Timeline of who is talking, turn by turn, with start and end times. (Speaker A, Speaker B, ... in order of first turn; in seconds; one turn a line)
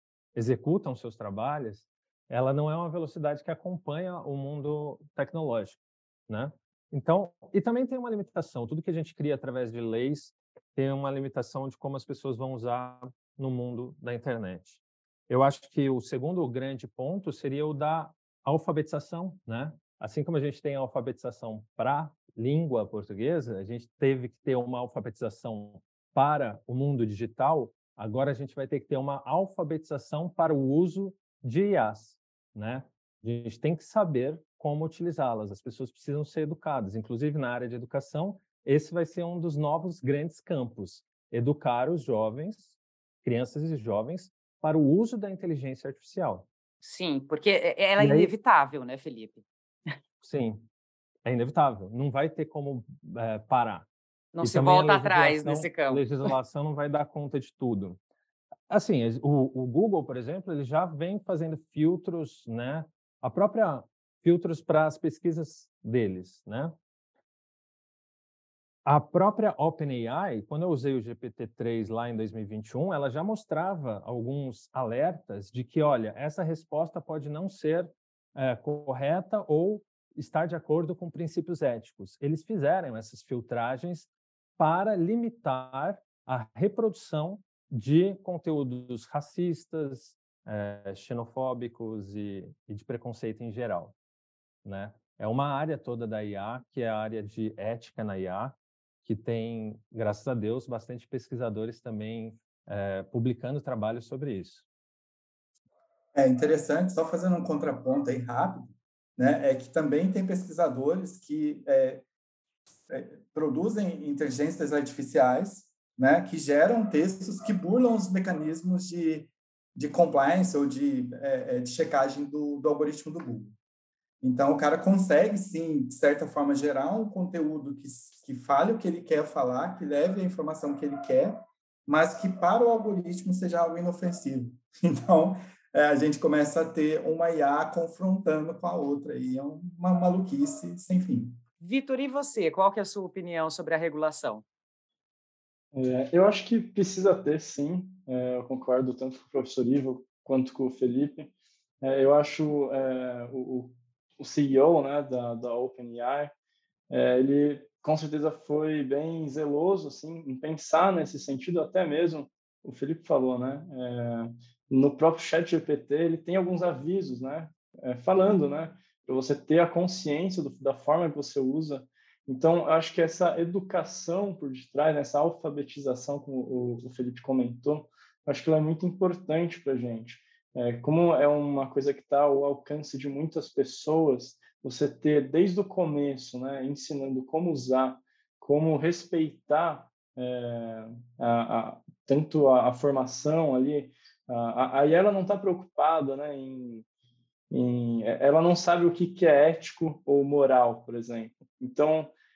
Speaker A: 0.3-46.5
Speaker B: 46.8-49.4
Speaker A: 48.0-48.3
Speaker A: 50.2-50.7
Speaker A: 51.2-53.9
Speaker B: 54.3-56.3
Speaker A: 54.4-58.0
Speaker A: 58.7-66.8
Speaker A: 68.8-93.9
Speaker A: 94.6-104.6
Speaker C: 106.1-112.0
Speaker C: 112.9-123.5
Speaker C: 124.2-141.4
Speaker B: 141.6-144.4
Speaker D: 145.7-156.3
Speaker D: 156.9-196.8
Speaker D: 197.5-202.1